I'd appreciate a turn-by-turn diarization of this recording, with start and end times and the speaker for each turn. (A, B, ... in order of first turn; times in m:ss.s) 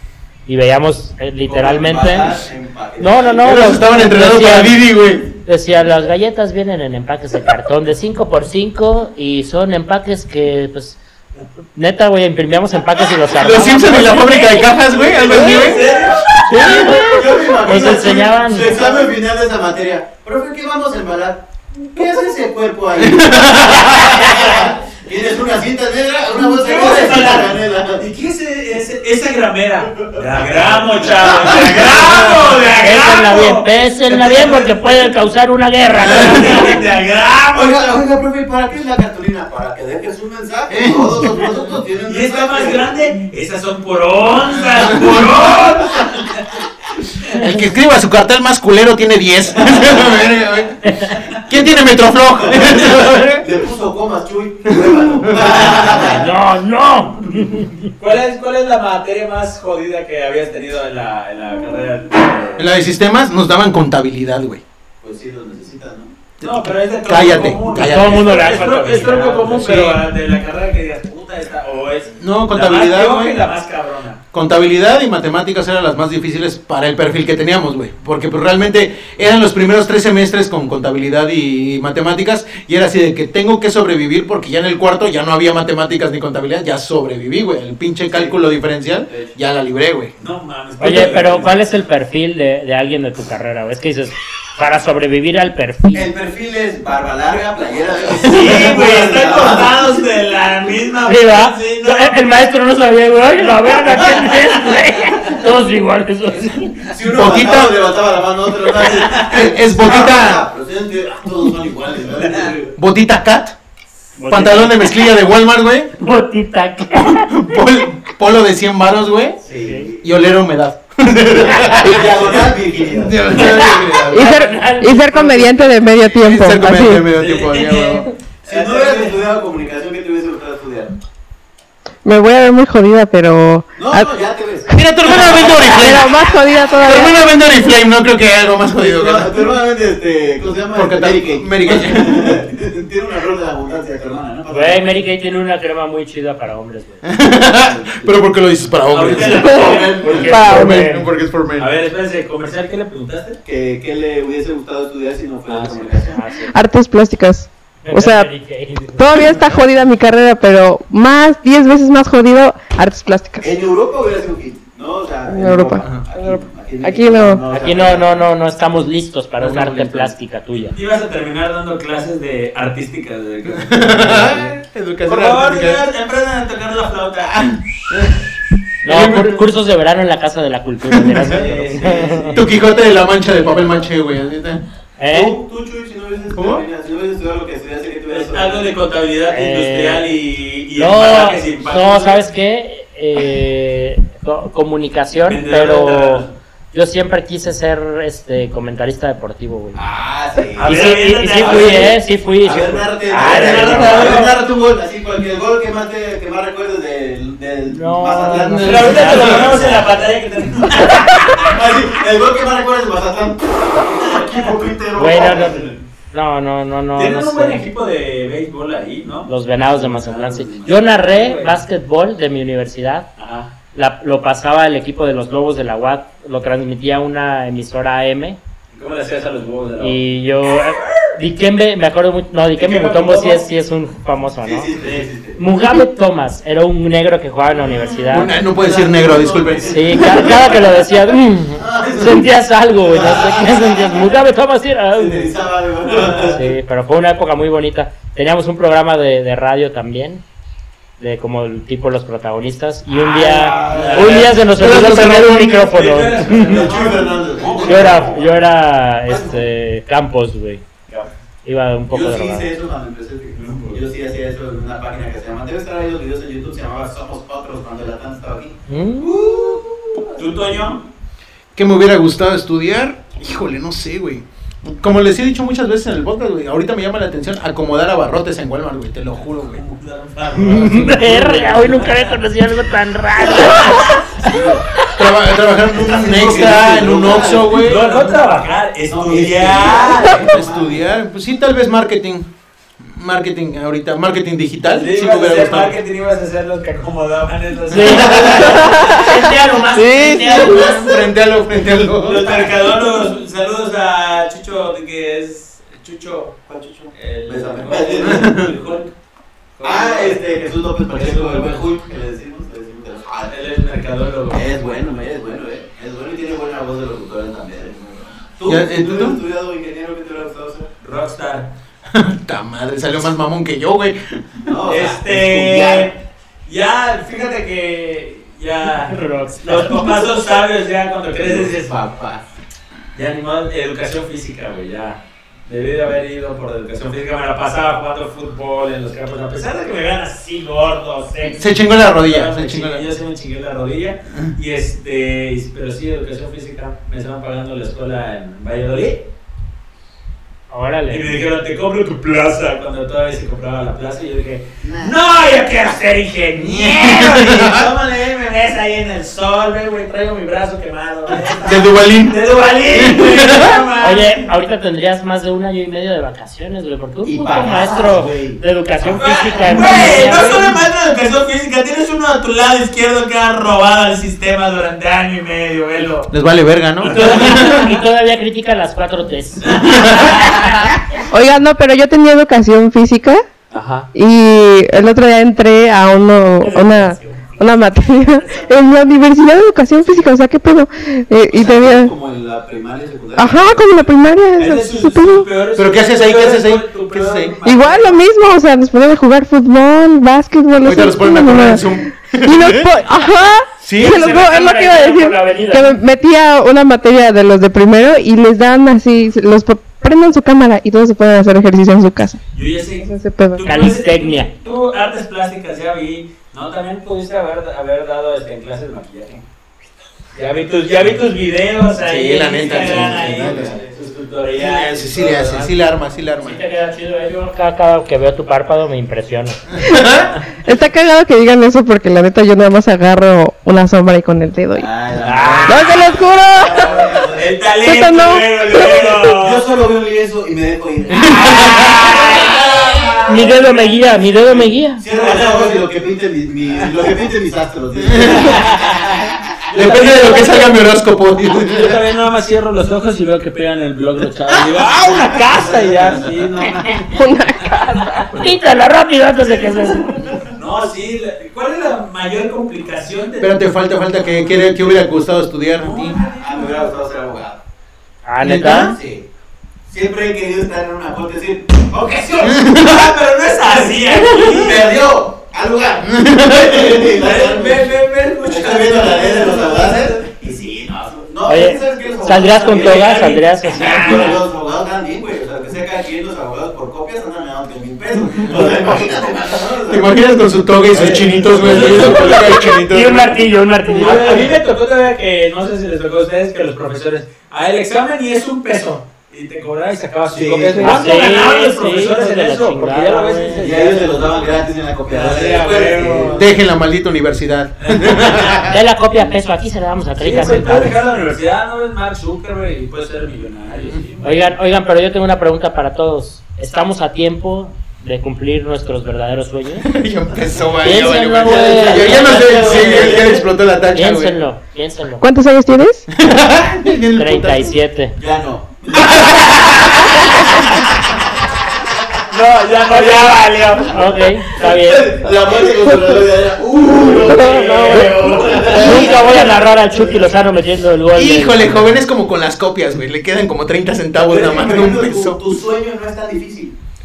0:00.4-0:02.4 A
0:01.4-0:03.7 B
0:03.0-0:04.8 A
0:03.4-0:05.3 C
0:05.4-0:11.0 A
0:11.7-0:14.7 A
0:13.3-0:17.2 C
0:14.9-0:15.8 B
0:14.9-0:16.2 D
0:16.5-0:18.8 A
0:16.6-0:28.0 B
0:23.0-0:24.2 C
0:26.4-0:35.1 D
0:31.5-0:32.4 C
0:32.7-0:36.8 A
0:36.1-0:37.9 D
0:37.5-0:42.9 B
0:40.7-0:41.3 C
0:42.0-0:46.6 D
0:44.7-0:45.2 C
0:47.3-0:50.9 C
0:49.6-0:50.2 B
0:50.8-0:51.2 A
0:51.4-0:53.4 C
0:52.4-0:56.2 B
0:54.7-0:55.7 C
0:55.6-0:57.9 A
0:58.0-1:02.7 D
1:02.6-1:04.6 C
1:05.0-1:06.1 B
1:06.4-1:08.3 C
1:06.4-1:14.2 D
1:07.8-1:09.9 A
1:09.5-1:09.9 C
1:12.2-1:13.4 C
1:14.3-1:30.1 C
1:28.1-1:28.5 B
1:29.0-1:29.3 B
1:30.2-1:31.6 D
1:30.8-1:36.1 A
1:35.9-1:39.9 B
1:38.2-1:42.2 D
1:41.1-1:46.9 A
1:43.7-1:45.1 D
1:46.8-1:52.7 B
1:47.0-1:47.8 C
1:48.8-1:49.2 D
1:49.2-1:50.4 C
1:52.2-1:52.5 D
1:52.8-1:53.5 C
1:54.2-1:55.0 A
1:54.3-1:55.9 C
1:56.0-1:57.5 A
1:57.0-1:59.4 C
1:59.4-2:00.1 B
1:59.5-1:59.9 A
2:00.0-2:02.3 C
2:01.3-2:03.6 B
2:01.5-2:02.0 A
2:02.9-2:04.4 C
2:03.3-2:05.9 A
2:04.1-2:07.1 E
2:06.1-2:08.1 C
2:07.1-2:09.2 D
2:08.4-2:11.0 B
2:12.0-2:14.1 E
2:13.8-2:16.9 B
2:14.7-2:16.1 C
2:15.6-2:17.2 E
2:16.8-2:19.5 C
2:18.8-2:25.0 B
2:20.7-2:22.4 C
2:24.5-2:27.1 A
2:27.0-2:29.7 C
2:27.6-2:28.2 B
2:28.9-2:30.4 D
2:29.1-2:30.5 B
2:29.8-2:31.1 A
2:30.2-2:30.8 E
2:30.3-2:31.7 C
2:31.6-2:33.4 D
2:33.4-2:36.2 B
2:35.5-2:36.3 D
2:36.1-2:36.5 A
2:36.5-2:38.3 E
2:37.8-2:39.3 A
2:39.0-2:43.5 E
2:43.4-2:48.2 B
2:45.2-2:47.4 E
2:47.5-2:50.8 A
2:49.4-2:50.1 C
2:50.7-2:58.1 D
2:53.4-2:55.9 C
2:57.9-2:58.2 C
2:58.8-3:02.5 A
2:58.8-2:59.5 C
3:00.9-3:01.4 C
3:01.3-3:02.6 D
3:01.7-3:02.3 B
3:02.3-3:04.6 C
3:05.0-3:05.4 A
3:05.1-3:08.7 B
3:06.3-3:06.6 C
3:08.1-3:12.2 D
3:09.3-3:10.1 A
3:10.8-3:19.8 A
3:15.3-3:16.3 D
3:19.7-3:20.9 B
3:20.5-3:22.0 D
3:20.6-3:24.3 A
3:21.4-3:21.9 B
3:22.4-3:29.7 B
3:23.2-3:24.3 D
3:23.6-3:24.1 C
3:27.7-3:29.8 A
3:28.4-3:29.6 C
3:28.6-3:31.5 D
3:31.4-3:35.8 B
3:34.0-3:34.4 D
3:34.9-3:37.6 A
3:37.0-3:41.6 D
3:39.3-3:43.1 A
3:43.2-3:43.5 D
3:43.7-3:48.4 A
3:48.7-3:50.0 D
3:49.8-3:54.7 A
3:52.6-3:53.4 D
3:54.4-3:55.4 B
3:54.8-3:55.1 D
3:55.4-3:58.3 A
3:58.1-4:00.4 C
3:58.4-4:00.6 B
3:59.6-4:05.3 A
4:01.6-4:02.2 B
4:02.8-4:04.1 B
4:05.0-4:06.4 B
4:06.3-4:10.2 A
4:11.0-4:16.7 A
4:13.0-4:18.2 D
4:13.1-4:14.3 B
4:14.5-4:15.7 C
4:16.3-4:18.4 B
4:17.6-4:20.6 A
4:19.1-4:19.4 B
4:21.4-4:22.5 A
4:21.9-4:30.6 B
4:23.4-4:23.8 D
4:28.7-4:29.3 A
4:30.2-4:30.8 D
4:31.5-4:39.6 C
4:39.2-4:42.2 D
4:40.3-4:44.3 A
4:40.4-4:41.0 C
4:43.3-4:44.5 D
4:44.2-4:44.6 B
4:44.9-4:47.9 C
4:45.7-4:47.6 B
4:47.3-4:50.3 D
4:47.8-4:48.2 A
4:48.9-4:50.9 B
4:50.2-4:52.3 C
4:52.8-4:55.8 C
4:54.7-4:59.0 D
4:57.7-5:00.7 A
4:57.8-4:58.3 C
4:58.4-4:59.2 E
4:59.7-5:00.9 E
5:00.0-5:02.5 C
5:02.0-5:06.4 D
5:06.5-5:08.4 B
5:06.9-5:08.9 D
5:08.0-5:08.5 C
5:09.6-5:11.6 D
5:09.6-5:13.3 B
5:13.3-5:14.5 D
5:14.3-5:20.7 B
5:18.4-5:19.2 C
5:20.8-5:21.5 D
5:21.9-5:24.4 C
5:24.4-5:26.0 B
5:24.6-5:25.9 D
5:26.4-5:31.7 D
5:28.8-5:29.9 A
5:31.2-5:32.2 B
5:32.9-5:49.1 D
5:41.3-5:42.9 C
5:50.5-5:51.1 A
5:50.9-6:04.3 D
5:54.6-5:54.9 B
5:56.4-5:57.7 C
6:01.4-6:03.6 C
6:03.8-6:10.6 A
6:07.0-6:08.4 B
6:08.8-6:16.1 D
6:08.9-6:10.2 B
6:16.1-6:17.7 C
6:16.8-6:17.4 D
6:16.8-6:20.7 A
6:19.4-6:20.7 D
6:19.7-6:19.9 C
6:21.1-6:23.2 E
6:23.5-6:23.9 D
6:23.9-6:31.9 E
6:26.4-6:28.4 A
6:31.3-6:33.9 B
6:33.2-6:35.3 E
6:34.4-6:38.0 D
6:35.6-6:37.3 C
6:37.4-6:52.2 E
6:40.6-6:42.7 C
6:43.6-6:44.1 C
6:43.7-6:45.8 A
6:52.3-6:59.2 D
6:52.8-6:53.4 E
6:53.4-6:54.3 A
7:00.1-7:05.6 D
7:01.8-7:03.5 C
7:02.5-7:03.6 B
7:04.4-7:06.4 C
7:06.2-7:09.8 A
7:09.5-7:10.1 C
7:09.7-7:14.7 E
7:14.5-7:17.3 B
7:15.0-7:15.9 A
7:15.4-7:16.9 E
7:17.1-7:19.4 D
7:17.6-7:18.5 E
7:18.6-7:23.5 B
7:20.9-7:21.9 C
7:21.5-7:23.5 D
7:23.0-7:24.8 A
7:24.8-7:29.3 B
7:24.9-7:25.6 D
7:26.6-7:26.8 D
7:27.8-7:28.2 C
7:28.0-7:29.0 D
7:29.5-7:30.5 D
7:29.5-7:31.8 C
7:31.4-7:36.8 D
7:34.6-7:36.6 B
7:36.8-7:38.1 E
7:38.1-7:40.2 A
7:40.3-7:43.4 D
7:43.2-7:46.0 C
7:45.6-7:46.5 D
7:46.0-7:47.4 B
7:48.0-7:48.7 A
7:48.2-7:48.7 C
7:48.7-7:49.0 B
7:49.7-7:52.7 B
7:52.1-7:54.7 D
7:52.2-7:52.9 C
7:54.1-7:57.7 B
7:55.8-7:56.9 C
7:56.9-8:00.1 D
7:58.2-8:10.0 B
8:01.2-8:04.2 A
8:02.4-8:04.2 D
8:09.7-8:13.2 C
8:10.7-8:12.1 B
8:10.7-8:12.4 D
8:11.8-8:14.3 A
8:13.7-8:26.3 D
8:20.1-8:20.8 B
8:20.6-8:23.5 A
8:23.4-8:26.3 B
8:26.1-8:28.4 C
8:27.6-8:28.3 D
8:28.4-8:30.8 A
8:30.0-8:34.3 D
8:34.0-8:39.7 A
8:39.6-8:44.2 C
8:40.6-8:42.8 A
8:40.8-8:43.3 B
8:42.5-8:43.1 D
8:43.7-8:45.1 A
8:45.0-8:45.9 E
8:45.9-8:47.5 C
8:47.0-8:48.0 A
8:48.0-8:49.8 B
8:49.1-8:50.0 D
8:52.1-8:53.8 D
8:52.7-8:55.1 A
8:54.4-9:00.0 B
8:56.7-8:59.3 D
8:57.2-9:01.8 A
9:00.9-9:05.2 C
9:04.0-9:06.6 B